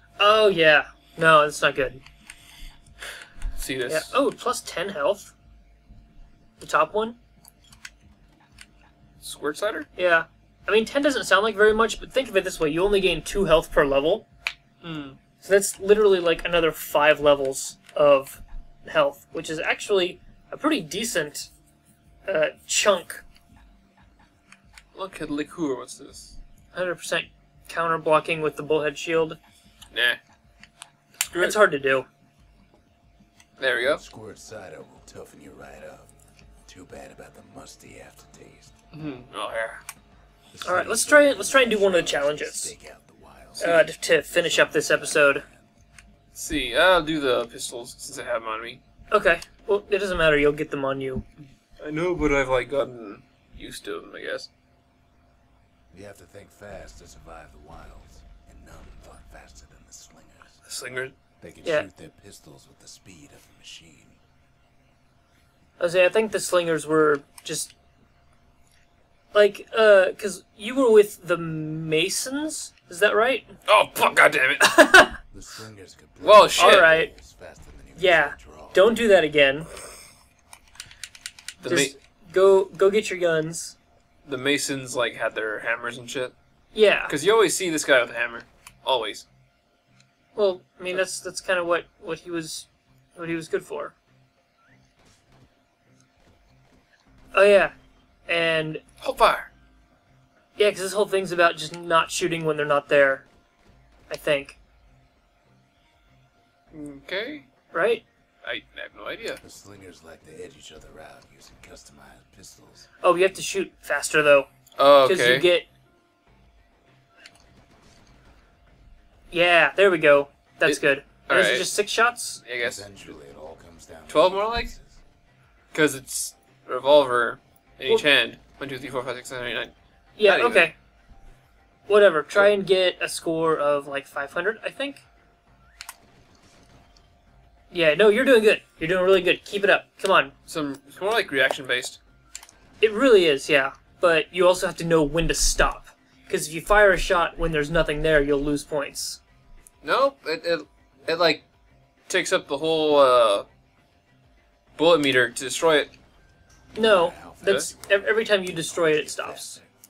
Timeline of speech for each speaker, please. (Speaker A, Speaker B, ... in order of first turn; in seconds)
Speaker A: 0.2-2.0, 3.9-5.3, 6.6-7.2, 9.9-14.2, 15.4-21.5, 22.2-23.2, 26.7-29.4, 31.4-32.1, 40.6-42.7, 43.6-45.4, 49.1-51.2, 65.8-67.7, 69.3-73.5, 74.6-75.2, 76.5-77.1, 78.0-79.7, 81.7-83.8, 86.7-87.1, 90.3-93.9, 97.3-97.7, 98.3-98.8, 100.6-103.3, 104.1-104.6, 107.7-108.0, 113.0-114.5, 115.0-115.7, 119.3-122.4, 130.2-130.7, 131.9-135.0, 137.7-140.3, 142.8-149.2, 156.7-159.6
Speaker B: 3.6-4.1, 9.2-9.9, 14.8-15.2, 24.9-26.4, 29.9-30.2, 31.2-31.6, 33.6-34.0, 38.9-39.8, 46.3-48.8, 51.8-54.5, 60.6-61.1, 73.7-74.8, 76.2-76.9, 81.6-81.9, 84.2-86.3, 87.1-89.2, 99.0-99.5, 106.7-107.5, 108.4-109.4, 114.8-115.5, 120.6-121.7, 122.4-123.0, 124.1-124.7, 125.7-129.7, 130.2-130.7, 140.5-142.0, 149.8-151.4, 152.1-153.4, 154.8-155.9, 157.4-157.7
Speaker C: 33.9-36.1, 36.7-38.7, 40.5-45.7, 55.9-60.6, 61.4-64.2, 75.3-79.0, 109.4-112.9, 122.6-125.0, 156.7-159.7